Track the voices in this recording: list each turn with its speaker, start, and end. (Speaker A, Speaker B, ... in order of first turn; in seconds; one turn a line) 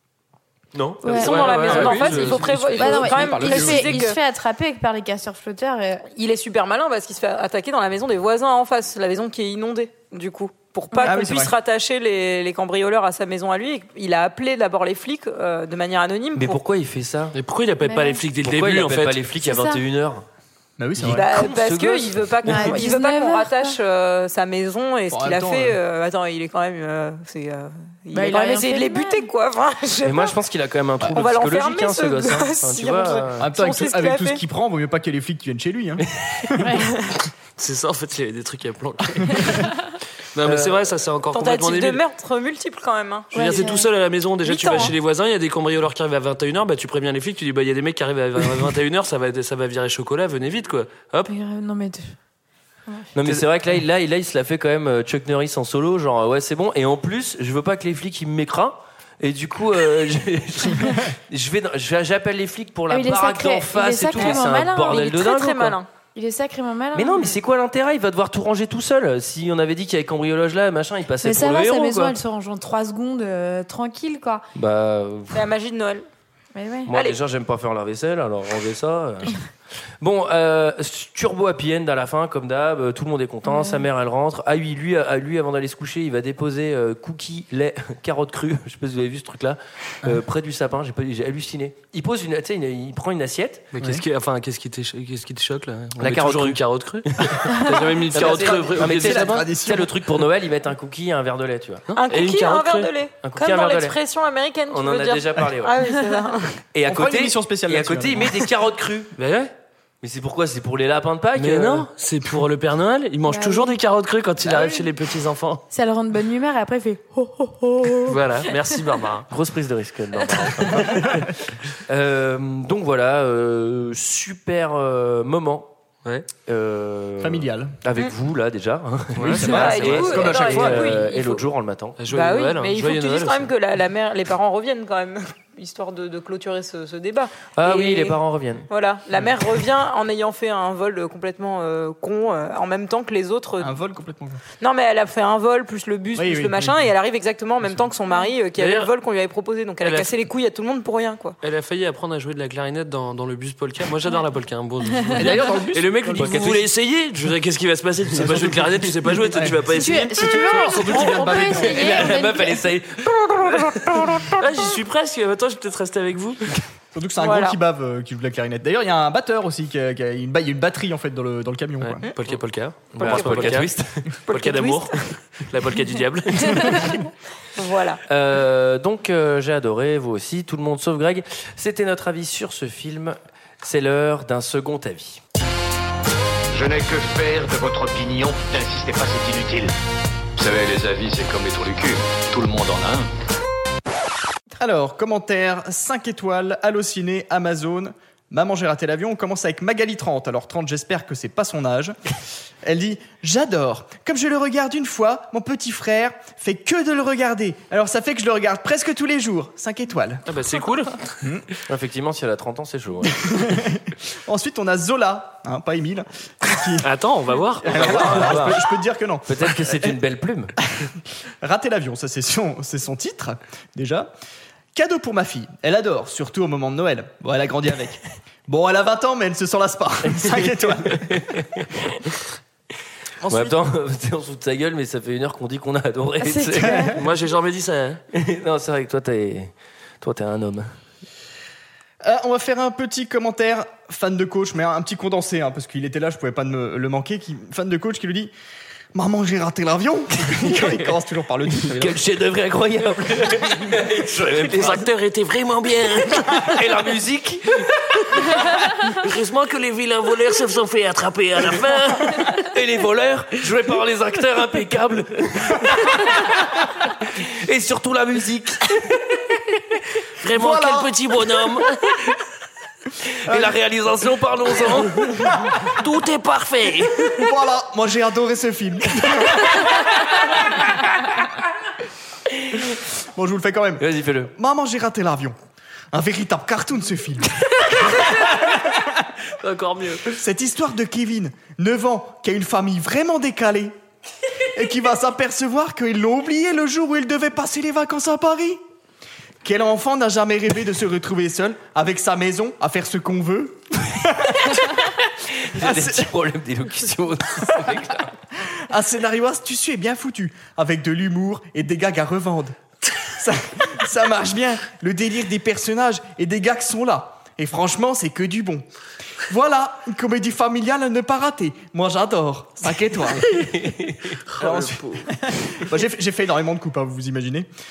Speaker A: 0.8-2.7
Speaker B: 1.0-1.5
Speaker C: 1.1-4.2
Speaker D: 1.1-2.5
Speaker B: 2.7-6.0
Speaker E: 2.8-3.9
Speaker C: 6.1-16.6
Speaker E: 11.0-11.5
Speaker D: 16.3-17.4
Speaker A: 17.3-19.3
Speaker B: 17.8-18.2
Speaker D: 18.4-20.2
Speaker B: 19.4-19.8
Speaker E: 20.8-21.3
Speaker D: 21.0-22.8
Speaker C: 21.1-30.3
Speaker B: 22.4-23.8
Speaker E: 25.1-25.8
Speaker B: 28.1-29.2
Speaker D: 30.0-33.5
Speaker C: 31.0-34.4
Speaker E: 33.4-36.6
Speaker B: 36.6-36.9
Speaker A: 37.6-39.7
Speaker A: 40.3-42.0
Speaker D: 40.4-40.9
Speaker C: 41.3-43.8
Speaker B: 43.3-43.9
Speaker A: 43.3-51.3
Speaker C: 44.4-44.9
Speaker B: 51.3-52.1
Speaker D: 53.1-65.8
Speaker B: 62.9-65.3
Speaker C: 64.2-65.9
Speaker B: 66.1-67.3
Speaker D: 66.9-72.2
Speaker B: 71.2-74.4
Speaker D: 74.5-75.5
Speaker C: 75.3-76.0
Speaker B: 76.5-76.9
Speaker D: 76.9-79.5
Speaker C: 76.9-77.2
Speaker D: 80.0-93.7
Speaker B: 83.5-83.9
Speaker A: 93.7-99.5
Speaker E: 93.8-94.0
Speaker D: 96.0-96.6
Speaker D: 97.2-101.9
Speaker E: 98.2-99.9
Speaker A: 102.0-102.9
Speaker C: 102.0-106.6
Speaker D: 103.2-104.0
Speaker D: 104.7-105.8
Speaker D: 106.7-109.1
Speaker E: 106.8-108.3
Speaker A: 109.2-109.5
Speaker D: 110.0-111.9
Speaker A: 111.3-115.6
Speaker B: 113.3-113.8
Speaker B: 115.7-118.2
Speaker A: 118.1-119.3
Speaker D: 119.3-121.3
Speaker D: 121.9-125.7
Speaker D: 126.5-132.0
Speaker E: 127.2-127.8
Speaker A: 129.2-130.1
Speaker E: 129.2-131.0
Speaker C: 129.5-131.4
Speaker A: 132.0-133.5
Speaker C: 132.1-138.2
Speaker D: 137.6-138.7
Speaker C: 138.7-143.7
Speaker E: 143.6-144.4
Speaker C: 144.6-151.4
Speaker E: 146.1-146.9
Speaker A: 148.6-148.9
Speaker A: 149.8-150.1
Speaker A: 151.4-160.4
Speaker E: 155.2-156.5
Speaker D: 156.2-156.6
Speaker E: 158.1-162.1
Speaker B: 159.7-162.6
Speaker D: 161.6-164.4
Speaker A: 164.4-166.4
Speaker E: 166.9-172.1
Speaker C: 167.2-167.6
Speaker A: 172.2-173.7
Speaker D: 172.9-174.0
Speaker C: 174.3-174.9
Speaker A: 174.3-176.9
Speaker C: 177.5-178.0
Speaker D: 178.1-185.2
Speaker F: 186.5-189.7
Speaker F: 190.4-193.1
Speaker E: 194.6-202.0
Speaker E: 202.6-210.2
Speaker A: 210.3-211.2
Speaker D: 211.7-213.6
Speaker E: 213.1-216.8
Speaker A: 216.8-218.5
Speaker E: 217.6-220.0
Speaker D: 217.7-218.6
Speaker D: 219.3-220.5
Speaker E: 221.4-224.1
Speaker E: 224.7-231.3
Speaker D: 230.2-231.7
Speaker E: 233.2-233.6
Speaker D: 233.3-236.9
Speaker B: 236.2-236.9
Speaker E: 236.6-236.9
Speaker A: 237.0-238.0
Speaker D: 238.1-240.7
Speaker E: 242.0-248.3
Speaker E: 248.9-252.0
Speaker D: 250.4-250.8
Speaker D: 251.7-254.8
Speaker A: 254.5-256.5
Speaker D: 256.1-257.6
Speaker A: 258.9-262.3
Speaker D: 262.4-269.0
Speaker A: 270.2-271.7
Speaker E: 270.3-270.9
Speaker D: 273.2-275.3
Speaker E: 273.3-273.5
Speaker A: 275.6-277.2
Speaker E: 277.1-279.8
Speaker E: 283.1-285.4
Speaker D: 283.8-284.3
Speaker E: 285.9-287.3
Speaker E: 288.2-288.9
Speaker A: 289.4-290.2
Speaker E: 290.1-293.7
Speaker E: 294.5-298.6
Speaker E: 299.4-304.6
Speaker D: 305.3-308.1
Speaker E: 305.6-306.1
Speaker E: 308.5-318.6
Speaker E: 319.3-323.5
Speaker D: 323.5-323.9
Speaker A: 324.3-325.1
Speaker E: 324.4-327.5